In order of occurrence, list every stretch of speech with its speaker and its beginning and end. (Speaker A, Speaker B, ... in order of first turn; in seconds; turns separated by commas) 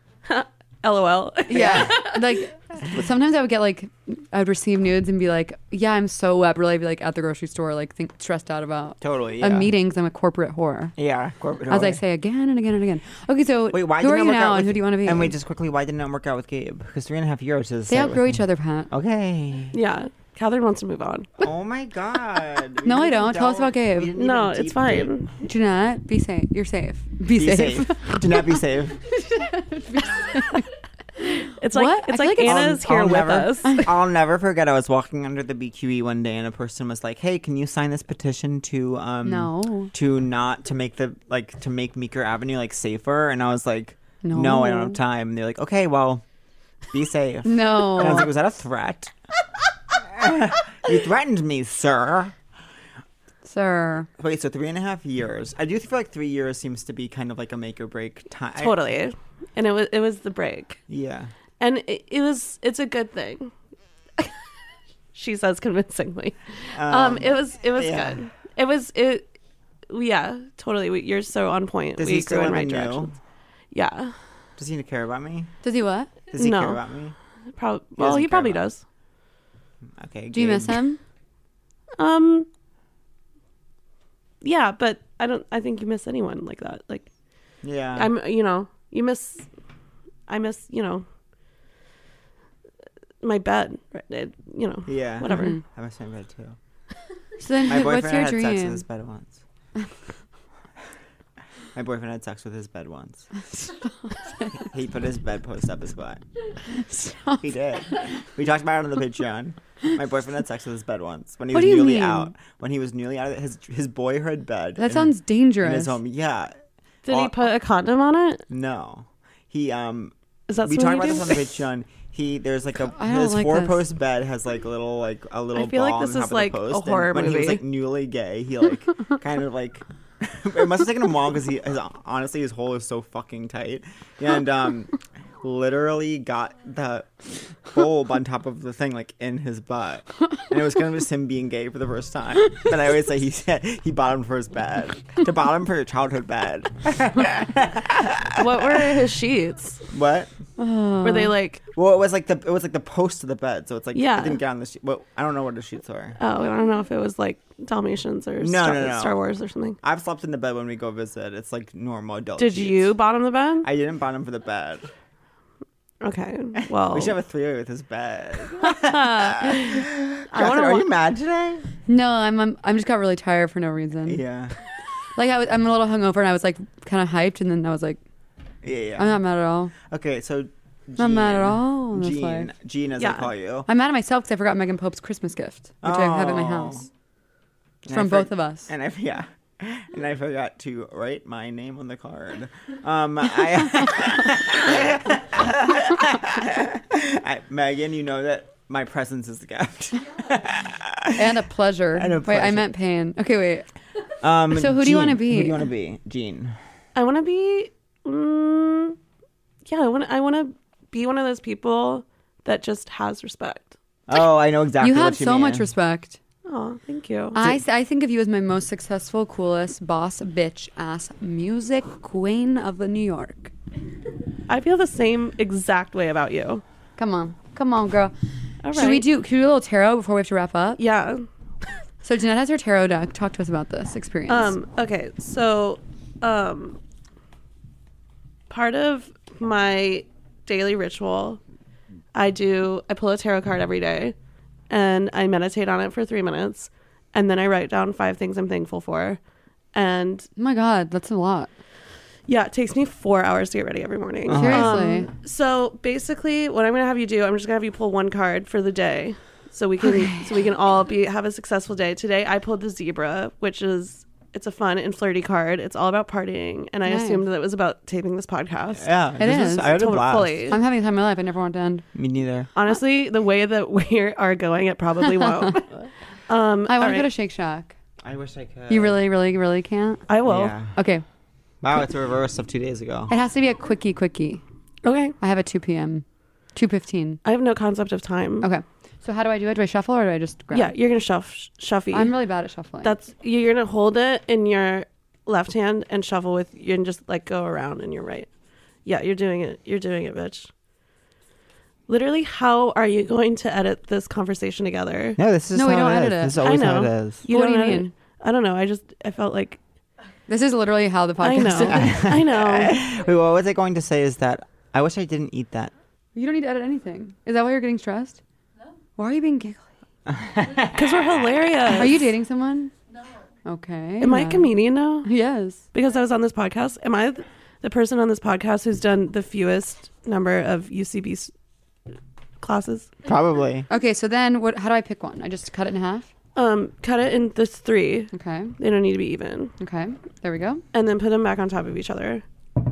Speaker A: 0.3-2.2, Speaker B: 1.5-11.0, Speaker C: 1.5-2.0, Speaker C: 9.0-9.7, Speaker C: 11.0-12.0, Speaker B: 11.7-15.3, Speaker C: 13.7-19.8, Speaker B: 17.9-18.9, Speaker A: 19.7-21.4, Speaker C: 21.4-25.1, Speaker B: 22.8-24.1, Speaker A: 24.2-25.3, Speaker B: 25.4-28.6, Speaker C: 27.3-29.1, Speaker B: 29.3-30.7, Speaker B: 31.2-32.7, Speaker A: 31.6-33.9, Speaker C: 32.4-46.2, Speaker B: 39.2-39.9, Speaker B: 44.2-45.0, Speaker C: 46.9-49.1, Speaker B: 47.5-48.3, Speaker C: 49.9-52.3, Speaker B: 53.5-54.1, Speaker C: 54.2-58.8, Speaker A: 58.6-60.8, Speaker C: 60.9-61.3, Speaker A: 61.6-63.5, Speaker A: 65.2-69.3, Speaker C: 66.7-68.2, Speaker A: 69.9-73.1, Speaker C: 72.0-73.1, Speaker A: 73.7-74.2, Speaker C: 74.6-75.5, Speaker B: 75.6-76.1, Speaker C: 76.3-77.2, Speaker A: 76.3-76.8, Speaker A: 77.6-78.8, Speaker C: 78.0-78.6, Speaker C: 80.0-80.8, Speaker B: 80.3-81.0, Speaker A: 82.0-82.5, Speaker A: 84.4-87.1, Speaker C: 87.6-88.1, Speaker A: 87.9-89.5, Speaker A: 90.3-91.0, Speaker A: 93.2-95.6, Speaker C: 94.9-96.6, Speaker B: 95.3-95.6, Speaker B: 97.4-98.8, Speaker C: 97.7-99.4, Speaker C: 101.8-103.3, Speaker B: 104.3-104.5, Speaker C: 104.6-106.2, Speaker B: 106.8-107.4, Speaker C: 107.4-116.5, Speaker B: 111.5-112.3, Speaker B: 114.8-116.0, Speaker A: 117.1-118.4, Speaker C: 117.1-117.4, Speaker C: 118.5-148.8, Speaker A: 120.5-121.5, Speaker B: 122.9-123.8, Speaker A: 125.5-127.6, Speaker A: 148.4-149.8, Speaker C: 149.9-150.3, Speaker B: 150.6-151.3, Speaker A: 151.0-151.6, Speaker C: 151.8-156.2, Speaker A: 153.9-154.4, Speaker A: 156.2-159.8, Speaker C: 158.4-159.2, Speaker C: 159.8-162.9, Speaker A: 162.4-163.7, Speaker C: 163.6-164.9, Speaker A: 166.0-167.2, Speaker C: 166.6-171.7, Speaker A: 168.6-170.9, Speaker B: 171.9-174.2, Speaker C: 174.1-174.5, Speaker B: 175.2-178.0, Speaker C: 178.6-179.2, Speaker B: 179.0-179.7, Speaker C: 179.8-183.7, Speaker B: 181.0-182.5, Speaker A: 183.0-183.3, Speaker B: 183.7-186.9, Speaker C: 185.8-186.9, Speaker C: 187.8-201.4, Speaker B: 187.9-188.7, Speaker B: 201.2-203.7, Speaker C: 201.9-202.7, Speaker C: 204.2-206.6, Speaker B: 204.5-205.6, Speaker A: 206.9-209.0, Speaker A: 209.7-213.8, Speaker C: 214.1-215.7, Speaker B: 214.8-216.2, Speaker A: 216.5-217.4, Speaker B: 217.3-223.5, Speaker A: 224.5-226.6, Speaker B: 227.0-228.1, Speaker A: 228.6-229.1, Speaker B: 228.7-230.8, Speaker A: 230.8-231.3, Speaker B: 232.0-234.5, Speaker A: 234.3-236.8, Speaker A: 238.5-241.4, Speaker A: 242.2-244.2, Speaker A: 244.7-249.2, Speaker A: 249.7-250.3, Speaker B: 250.4-251.5, Speaker A: 252.3-268.9, Speaker C: 254.3-254.8, Speaker B: 254.3-255.1, Speaker B: 259.8-260.3, Speaker B: 266.9-267.2, Speaker C: 268.8-270.6, Speaker B: 269.2-269.8, Speaker A: 269.4-270.6, Speaker B: 270.5-271.9, Speaker C: 271.9-272.5, Speaker A: 272.6-275.7, Speaker B: 275.1-275.5, Speaker A: 276.3-277.1, Speaker B: 276.7-277.7, Speaker C: 278.0-279.0, Speaker B: 278.7-280.0, Speaker A: 280.1-280.5, Speaker C: 280.2-280.8, Speaker B: 280.8-281.0, Speaker C: 281.6-283.1, Speaker B: 283.1-284.4, Speaker A: 284.8-285.2, Speaker B: 285.2-287.2, Speaker A: 287.2-288.5, Speaker B: 288.4-290.7, Speaker A: 290.5-292.1, Speaker B: 291.9-292.9, Speaker A: 292.8-298.3, Speaker A: 298.9-300.5, Speaker A: 301.9-305.2, Speaker C: 305.2-307.2, Speaker B: 305.5-306.4, Speaker A: 306.4-309.6, Speaker B: 307.3-307.9, Speaker B: 310.3-312.1, Speaker A: 311.2-312.8, Speaker C: 311.7-315.7, Speaker B: 316.1-318.2, Speaker B: 319.0-319.6, Speaker C: 320.1-321.1, Speaker A: 320.7-322.0, Speaker B: 321.8-322.7, Speaker B: 323.4-324.5, Speaker A: 324.0-325.1, Speaker B: 325.0-325.6, Speaker A: 325.7-331.3, Speaker A: 332.4-333.0, Speaker C: 333.1-333.7, Speaker B: 333.7-336.1, Speaker A: 336.4-339.5, Speaker B: 338.1-338.6, Speaker B: 339.6-340.6, Speaker A: 340.7-342.2